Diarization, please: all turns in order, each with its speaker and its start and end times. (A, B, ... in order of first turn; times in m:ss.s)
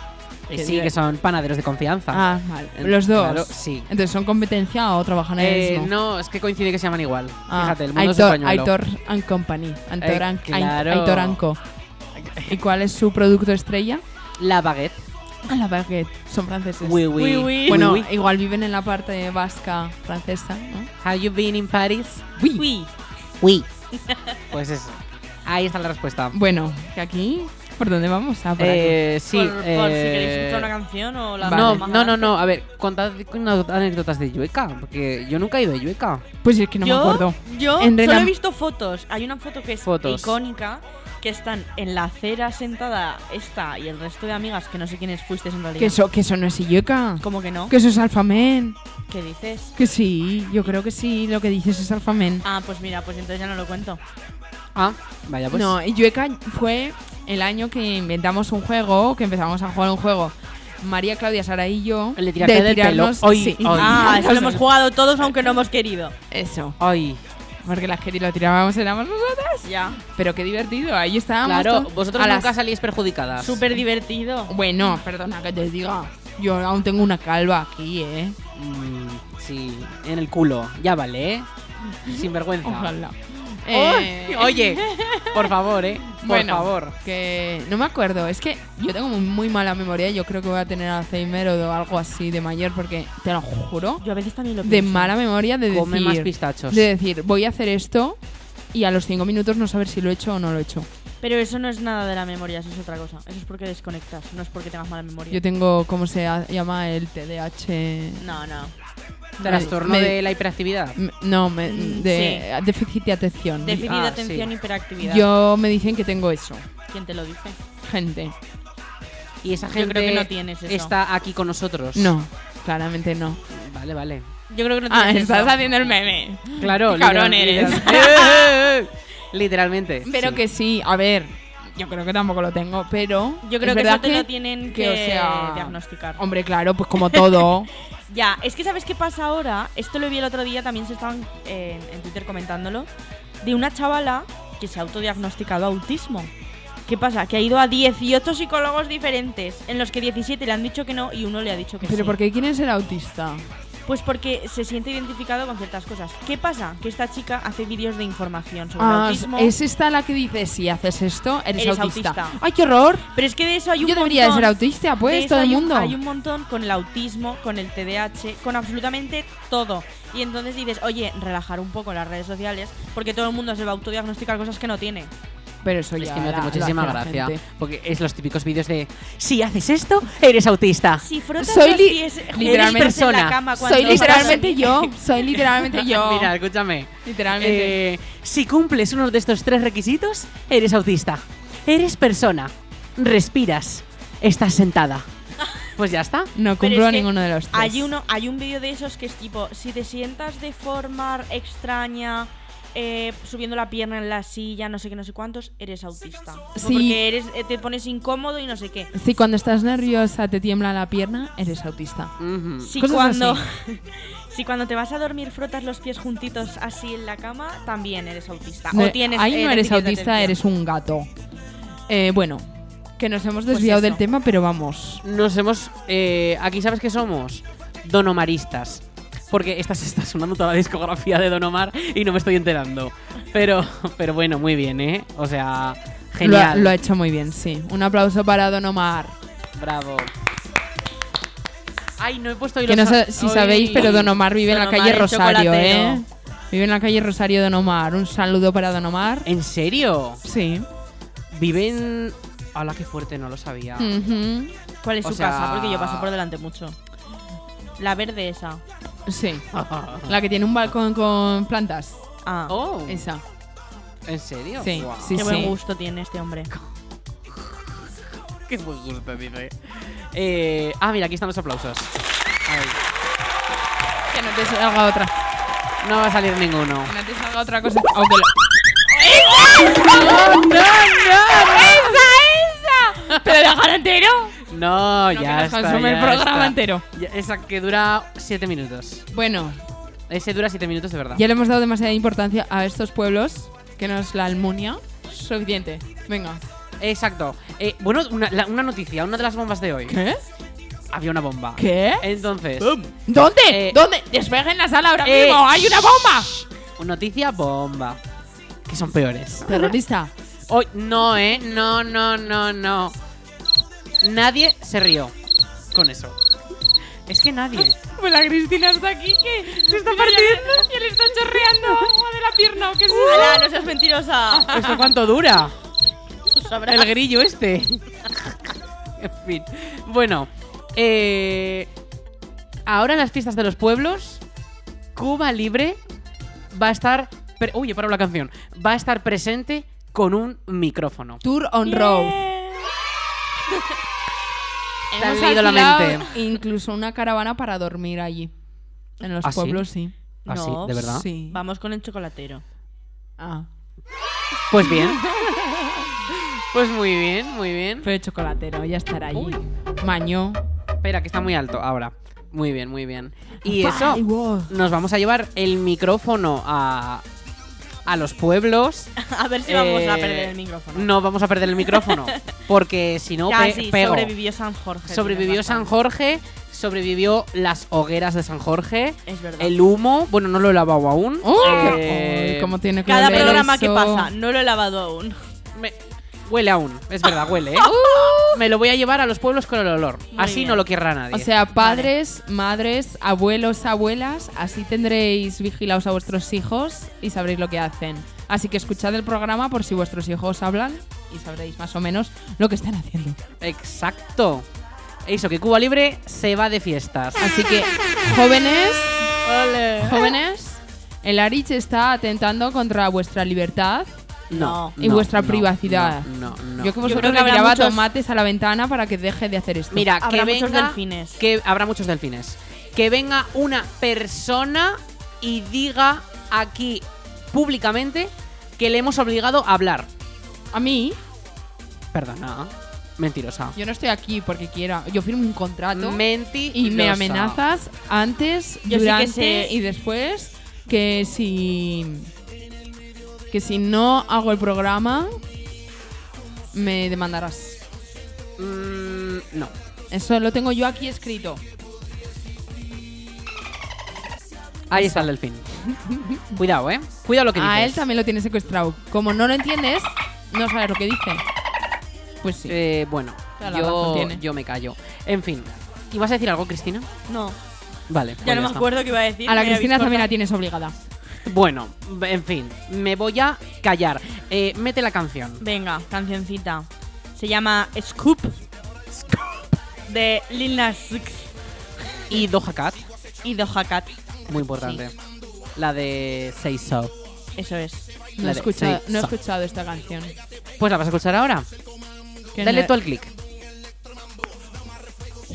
0:00.5-0:03.9 A
0:00.5-0:00.9 B
0:02.1-0:05.9 B
0:05.4-0:08.7 A
0:07.5-0:11.6 B
0:10.0-0:11.4 A
0:12.2-0:12.6 A
0:12.5-0:14.0 B
0:14.4-0:15.0 A
0:15.5-0:20.9 B
0:16.8-0:18.1 A
0:17.2-0:17.8 C
0:21.0-0:22.2 A
0:22.4-0:22.6 B
0:22.6-0:22.9 C
0:23.4-0:23.7 A
0:23.9-0:24.4 C
0:24.5-0:26.4 A
0:26.3-0:29.0 B
0:28.6-0:30.7 A
0:29.3-0:32.4 C
0:31.4-0:31.8 B
0:31.4-0:36.2 A
0:36.4-0:38.3 B
0:36.8-0:46.0 C
0:39.8-0:40.4 A
0:45.8-0:48.8 B
0:47.2-0:47.7 C
0:49.1-0:49.7 C
0:49.8-0:52.4 B
0:52.4-0:54.0 C
0:54.8-0:55.8 A
0:55.5-1:04.6 B
1:02.2-1:04.4 A
1:03.8-1:06.2 C
1:06.3-1:06.8 B
1:06.8-1:07.2 A
1:07.6-1:12.5 B
1:09.6-1:10.0 C
1:11.4-1:13.6 A
1:13.4-1:14.5 C
1:14.5-1:18.4 B
1:18.6-1:21.5 A
1:22.1-1:25.5 B
1:22.1-1:23.0 A
1:23.7-1:27.0 A
1:26.0-1:34.0 B
1:34.0-1:35.1 C
1:34.6-1:38.2 B
1:35.7-1:36.9 A
1:38.7-1:40.9 B
1:41.2-1:45.4 C
1:45.3-1:48.2 B
1:48.2-1:48.7 C
1:49.4-1:50.2 B
1:49.4-1:49.7 C
1:49.4-1:51.0 A
1:51.0-1:53.9 B
1:51.7-1:52.4 C
1:53.6-1:55.3 C
1:53.8-1:54.5 A
1:55.0-1:56.7 B
1:56.9-1:57.6 C
1:57.8-1:58.4 B
1:59.4-2:02.2 A
1:59.7-2:00.9 C
2:02.0-2:03.4 B
2:03.5-2:04.3 A
2:04.5-2:05.8 C
2:04.9-2:08.3 B
2:06.6-2:10.4 A
2:10.0-2:17.7 B
2:13.4-2:16.2 C
2:17.1-2:17.4 C
2:18.1-2:22.9 C
2:23.4-2:26.3 C
2:26.9-2:32.2 C
2:31.8-2:33.5 B
2:33.9-2:39.5 C
2:38.8-2:43.1 B
2:41.6-2:42.4 C
2:43.1-2:55.1 C
2:43.8-2:46.0 B
2:55.6-2:57.4 B
2:56.0-3:01.1 A
3:01.0-3:05.0 C
3:01.4-3:03.0 B
3:02.4-3:04.4 A
3:03.6-3:06.4 B
3:05.7-3:15.1 A
3:07.0-3:07.8 B
3:15.8-3:16.3 A
3:16.4-3:17.9 B
3:16.6-3:28.9 C
3:26.6-3:27.0 B
3:28.9-3:32.1 B
3:32.2-3:32.7 A
3:32.6-3:40.4 C
3:32.8-3:33.4 B
3:38.7-3:41.1 B
3:41.9-3:45.0 B
3:43.5-3:44.0 C
3:45.0-3:56.8 A
3:56.2-3:59.2 B
3:59.6-4:00.1 A
4:02.0-4:04.1 A
4:02.7-4:09.3 B
4:03.7-4:06.0 C
4:09.3-4:10.2 A
4:10.2-4:10.7 B
4:11.3-4:14.0 A
4:13.8-4:14.5 B
4:14.8-4:16.8 C
4:15.0-4:16.1 A
4:17.8-4:18.6 C
4:19.1-4:19.5 B
4:19.5-4:20.2 A
4:20.1-4:22.0 B
4:22.2-4:22.6 C
4:22.5-4:23.1 A
4:22.9-4:23.2 B
4:24.0-4:25.2 A
4:24.6-4:25.5 B
4:25.2-4:26.5 C
4:27.3-4:27.6 A
4:28.4-4:31.9 A
4:32.5-4:32.8 A
4:34.1-4:35.1 B
4:35.8-4:36.9 A
4:36.9-4:38.3 B
4:38.9-4:44.4 B
4:39.6-4:42.1 A
4:44.5-4:49.0 A
4:45.1-4:46.8 B
4:49.1-4:49.6 B
4:50.1-4:51.2 A
4:51.1-4:56.4 B
4:56.8-5:00.0 A
4:59.9-5:00.2 B
5:00.9-5:02.8 A
5:01.6-5:06.5 B
5:03.5-5:03.8 A
5:05.0-5:05.5 A
5:06.8-5:08.0 A
5:08.7-5:09.8 A
5:09.5-5:10.1 B
5:10.5-5:13.0 A
5:14.0-5:15.1 A
5:15.7-5:16.2 A
5:17.1-5:17.8 A
5:17.8-5:23.5 B
5:19.4-5:21.9 A
5:23.0-5:24.6 C
5:24.4-5:24.8 B
5:24.5-5:25.5 A
5:26.3-5:26.9 C
5:26.7-5:31.7 A
5:32.7-5:34.2 A
5:35.0-5:35.8 A
5:36.5-5:41.2 A
5:41.2-5:42.2 B
5:41.6-5:42.7 C
5:44.9-5:48.3 B
5:45.0-5:46.1 A
5:49.0-5:49.9 B
5:49.2-5:49.6 A
5:50.3-5:51.1 A
5:50.3-5:52.4 C
5:50.8-5:51.4 B
5:53.2-5:53.5 B
5:54.5-5:55.1 A
5:54.6-5:55.9 B
5:56.5-5:57.9 A
5:57.8-6:00.4 B
5:59.1-5:59.4 A
6:00.8-6:07.0 A
6:03.4-6:04.5 B
6:07.9-6:08.9 A
6:09.0-6:10.9 C
6:09.4-6:14.1 A
6:11.6-6:12.1 C
6:13.3-6:15.7 C
6:14.9-6:23.5 A
6:19.1-6:19.5 C
6:21.2-6:24.1 B
6:21.4-6:21.8 C
6:22.9-6:25.2 C
6:25.5-6:31.3 A
6:27.6-6:28.4 B
6:30.1-6:30.6 C
6:31.1-6:43.2 B
6:31.6-6:31.9 C
6:43.4-6:44.5 A
6:45.0-6:47.2 A
6:47.2-6:49.1 B
6:49.2-6:50.2 A
6:49.8-6:53.9 B
6:54.3-6:57.1 A
6:54.3-6:54.7 C
6:54.8-6:59.9 B
6:56.8-6:57.9 C
6:59.7-7:09.9 A
7:00.0-7:01.2 C
7:10.5-7:11.0 B
7:11.9-7:13.6 A
7:13.6-7:22.1 B
7:15.7-7:17.4 A
7:18.7-7:19.6 C
7:23.3-7:25.2 B
7:26.5-7:27.6 B
7:28.4-7:29.5 A
7:29.9-7:31.4 B
7:34.7-7:35.4 A
7:34.7-7:35.1 B
7:35.8-7:36.2 B
7:36.4-7:37.8 A
7:37.4-7:41.2 B
7:42.2-7:42.6 B
7:42.4-7:46.9 A
7:43.4-7:44.2 B
7:47.1-7:47.4 C
7:47.9-7:48.7 A
7:48.2-7:50.1 C
7:49.3-7:50.8 B
7:51.2-7:55.4 A
7:55.4-7:58.4 C
7:59.9-8:01.3 C
8:02.1-8:02.9 A
8:03.2-8:03.9 C
8:04.3-8:04.9 A
8:05.6-8:06.9 A
8:07.4-8:07.9 C
8:08.2-8:10.1 B
8:08.2-8:09.1 A
8:10.6-8:11.5 A
8:12.4-8:12.7 B
8:12.4-8:13.1 A